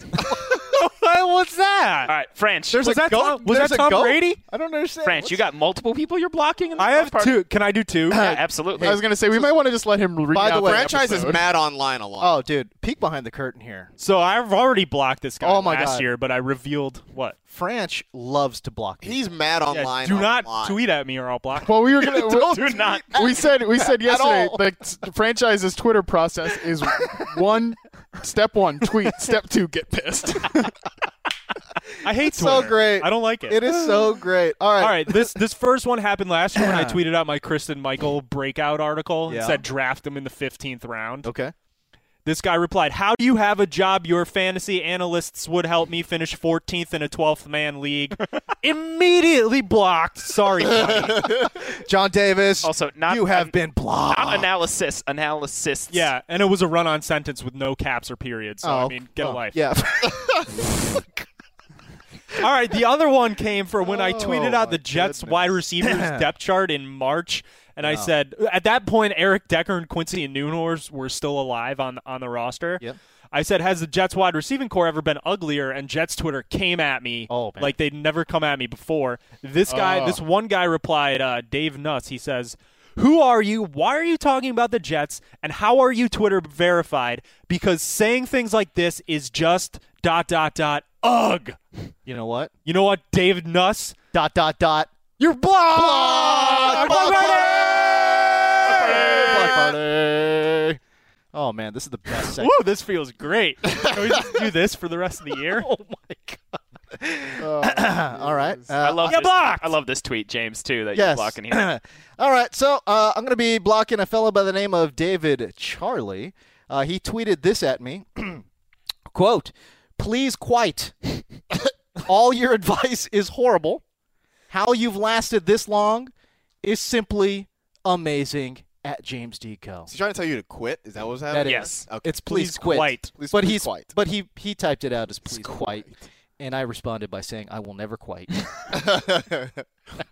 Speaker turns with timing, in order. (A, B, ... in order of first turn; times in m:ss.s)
0:00.2-0:00.6 A
0:00.5-0:02.1 B
0:02.1-0:02.8 C
0:02.7-0:05.4 A
0:02.8-0:04.4 B
0:05.0-0:07.4 C
0:06.8-0:08.2 B
0:08.1-0:09.5 A
0:08.1-0:09.0 C
0:08.8-0:11.4 D
0:10.3-0:10.9 A
0:10.6-0:12.3 E
0:12.2-0:13.9 A
0:14.0-0:17.4 B
0:15.4-0:16.1 A
0:17.5-0:19.2 A
0:19.0-0:20.8 E
0:19.7-0:21.8 B
0:21.6-0:30.7 D
0:22.0-0:24.6 A
0:22.0-0:23.4 C
0:32.0-0:33.6 B
0:32.2-0:35.4 A
0:34.8-0:41.3 B
0:36.6-0:37.0 A
0:39.2-0:39.6 A
0:41.2-0:41.5 A
0:42.2-0:51.4 B
0:50.7-0:54.5 A
0:52.6-0:56.1 C
0:55.9-0:59.6 B
0:58.6-1:01.1 A
1:02.4-1:31.6 B
1:03.8-1:06.3 A
1:07.8-1:08.1 A
1:17.3-1:17.7 A
1:19.7-1:20.2 D
1:32.0-1:32.5 A
1:32.6-1:34.0 B
1:34.1-1:34.9 A
1:35.2-1:37.7 B
1:35.6-1:40.8 A
1:38.6-1:39.7 C
1:41.3-1:42.6 A
1:42.3-1:45.7 B
1:43.9-1:44.4 A
1:45.4-1:49.3 A
1:47.4-1:48.7 D
1:48.8-1:51.7 C
1:49.0-1:49.7 B
1:50.9-1:58.4 A
1:59.1-2:03.8 A
2:04.5-2:06.1 A
2:06.6-2:09.9 A
2:09.9-2:12.2 E
2:11.3-2:15.9 A
2:11.4-2:11.8 C
2:12.2-2:13.1 B
2:13.2-2:13.9 E
2:16.4-2:18.8 A